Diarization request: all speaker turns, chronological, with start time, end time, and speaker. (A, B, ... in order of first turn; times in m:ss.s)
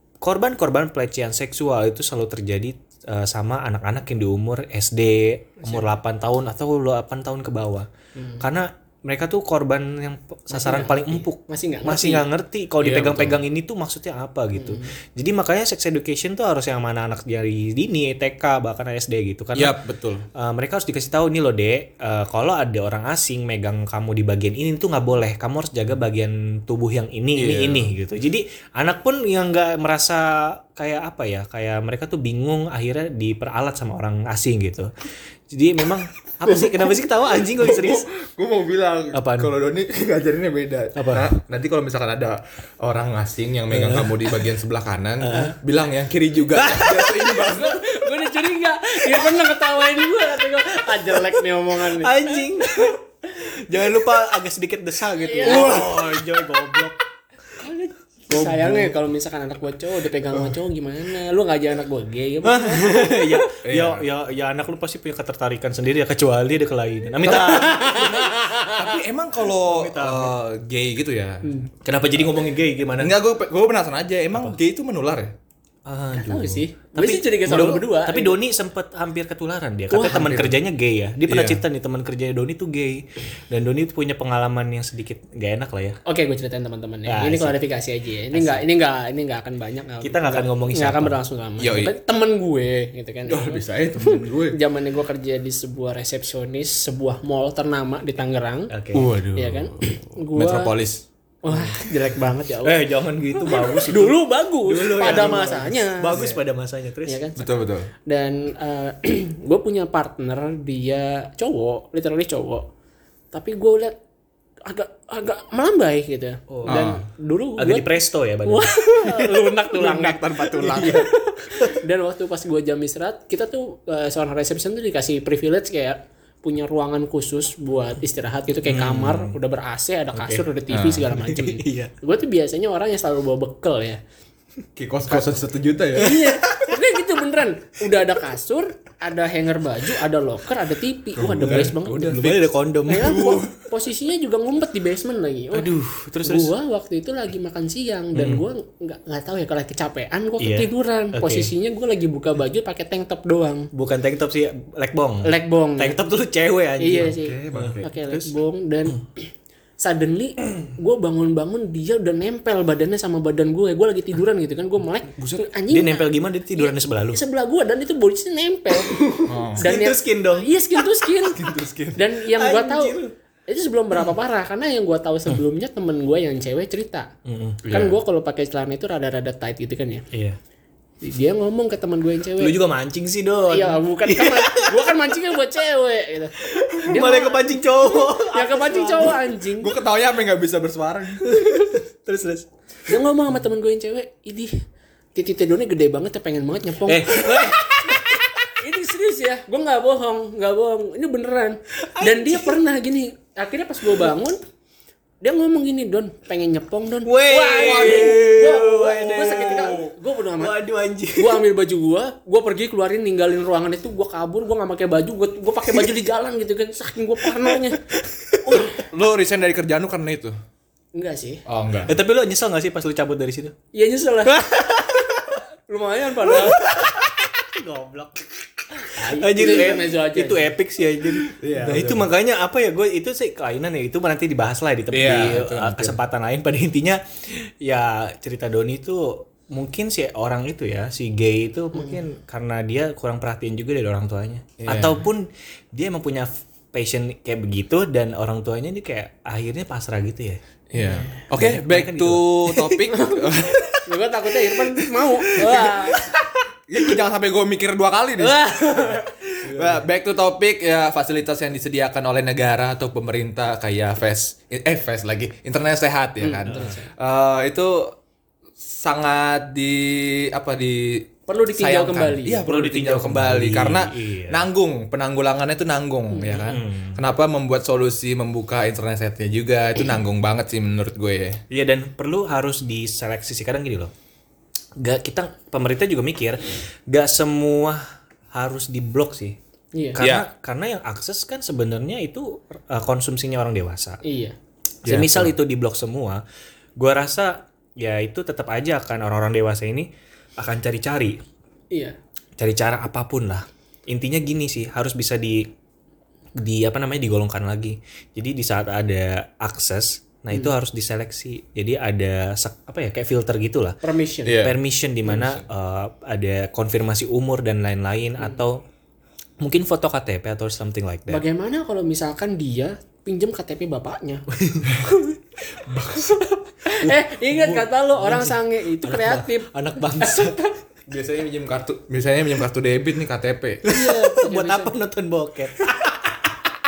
0:00.2-0:07.9 A
0:08.2-0:08.4 B
0:08.4-0:19.8 A
0:10.5-0:12.2 B
0:12.8-0:13.4 C
0:14.6-0:14.9 B
0:19.5-0:20.3 C
0:20.3-0:34.9 A
0:27.4-0:27.9 C
0:35.5-0:38.0 A
0:36.4-0:36.9 C
0:37.4-0:47.8 C
0:39.1-0:39.5 A
0:41.0-0:41.3 A
0:43.7-0:44.2 A
0:45.2-0:45.6 A
0:46.5-0:47.2 A
0:47.2-0:53.0 B
0:51.1-0:57.0 A
0:55.2-0:55.9 B
0:55.4-0:56.3 C
0:57.6-1:03.4 B
0:58.3-0:58.9 A
1:02.4-1:08.2 A
1:03.6-1:04.0 C
1:07.2-1:08.0 C
1:07.2-1:09.0 B
1:08.7-1:11.4 C
1:09.5-1:10.4 A
1:11.4-1:11.7 B
1:11.8-1:13.1 A
1:13.0-1:15.3 C
1:15.8-1:26.0 A
1:16.1-1:18.4 B
1:19.9-1:20.4 B
1:20.1-1:20.6 C
1:21.2-1:21.6 C
1:26.0-1:38.7 B
1:27.1-1:27.6 A
1:28.3-1:28.6 A
1:30.0-1:31.2 A
1:31.6-1:31.9 C
1:33.3-1:34.6 C
1:38.7-1:39.1 A
1:38.9-1:41.0 C
1:39.3-1:40.7 B
1:41.4-1:42.8 B
1:41.5-1:41.8 A
1:42.6-1:47.2 A
1:43.4-1:46.2 B
1:46.1-1:46.4 C
1:47.0-1:47.4 B
1:47.4-1:47.9 C
1:48.0-1:52.6 B
1:53.3-1:54.0 B
1:54.6-1:57.9 B
1:56.5-1:56.9 A
1:56.6-1:57.0 C
1:57.6-1:58.8 A
1:58.4-2:14.0 B
1:59.7-2:01.1 C
2:08.6-2:09.4 A
2:10.1-2:10.4 A
2:10.7-2:11.1 C
2:11.1-2:11.9 A
2:14.8-2:16.3 C
2:15.9-2:22.3 B
2:21.2-2:22.4 C
2:21.4-2:23.3 A
2:22.9-2:33.7 B
2:22.9-2:23.6 C
2:25.5-2:26.5 A
2:28.1-2:28.4 A
2:30.4-2:31.5 A
2:33.7-2:38.3 A
2:35.2-2:36.0 B
2:36.8-2:39.2 B
2:37.2-2:37.9 C
2:39.8-2:49.0 B
2:45.2-2:47.2 A
2:48.9-2:50.9 A
2:49.2-2:49.6 C
2:49.6-2:51.4 B
2:51.3-2:52.0 C
2:51.9-2:53.0 B
2:52.2-2:53.1 A
2:53.5-2:57.1 B
2:57.2-2:57.7 A
2:57.6-2:58.0 C
2:57.7-3:00.0 B
3:00.1-3:00.4 A
3:01.0-3:02.6 B
3:02.4-3:05.0 A
3:03.5-3:09.7 B
3:06.4-3:09.3 A
3:09.6-3:11.4 C
3:11.2-3:12.5 A
3:12.9-3:14.5 B
3:15.1-3:24.4 B
3:16.8-3:18.0 A
3:21.8-3:22.6 A
3:25.2-3:30.6 B
3:27.0-3:29.8 A
3:27.6-3:28.2 C
3:30.4-3:31.4 A
3:31.2-3:37.8 B
3:37.3-3:38.7 A
3:38.4-3:38.7 B
3:38.5-3:40.3 C
3:40.9-3:41.4 B
3:41.4-3:42.0 C
3:41.9-3:43.5 A
3:43.7-3:44.4 B
3:44.2-3:45.4 A
3:45.7-3:46.8 B
3:46.3-4:10.4 A
3:48.8-3:50.5 B
3:51.2-3:52.1 C
3:54.9-3:56.0 C
4:04.6-4:05.1 C
4:10.7-4:13.7 C
4:10.8-4:11.2 B
4:11.2-4:12.9 A
4:12.9-4:13.3 B
4:13.5-4:13.8 A
4:13.8-4:16.1 B
4:14.5-4:15.7 A
4:16.7-4:27.9 C
4:18.2-4:19.1 B
4:19.4-4:19.8 A
4:26.2-4:26.9 B
4:26.4-4:26.7 A
4:28.6-4:41.4 C
4:31.3-4:32.5 B
4:32.4-4:34.4 A
4:36.1-4:36.5 B
4:36.4-4:37.0 A
4:41.5-4:43.9 A
4:44.8-4:49.4 A
4:49.7-4:50.0 B
4:49.9-4:54.0 A
4:50.0-4:50.3 C
4:54.0-4:54.4 B
4:54.8-4:55.3 C
4:54.8-4:56.2 A
4:56.8-5:01.2 A
5:02.4-5:05.5 A
5:06.4-5:13.8 A
5:13.8-5:14.4 B
5:14.2-5:15.4 C
5:14.4-5:18.6 A
5:19.4-5:21.2 A
5:21.1-5:24.2 B
5:24.3-5:25.1 A
5:25.6-5:30.4 A
5:26.6-5:30.5 B
5:30.9-5:33.6 C
5:33.6-5:36.3 A
5:33.7-5:34.7 B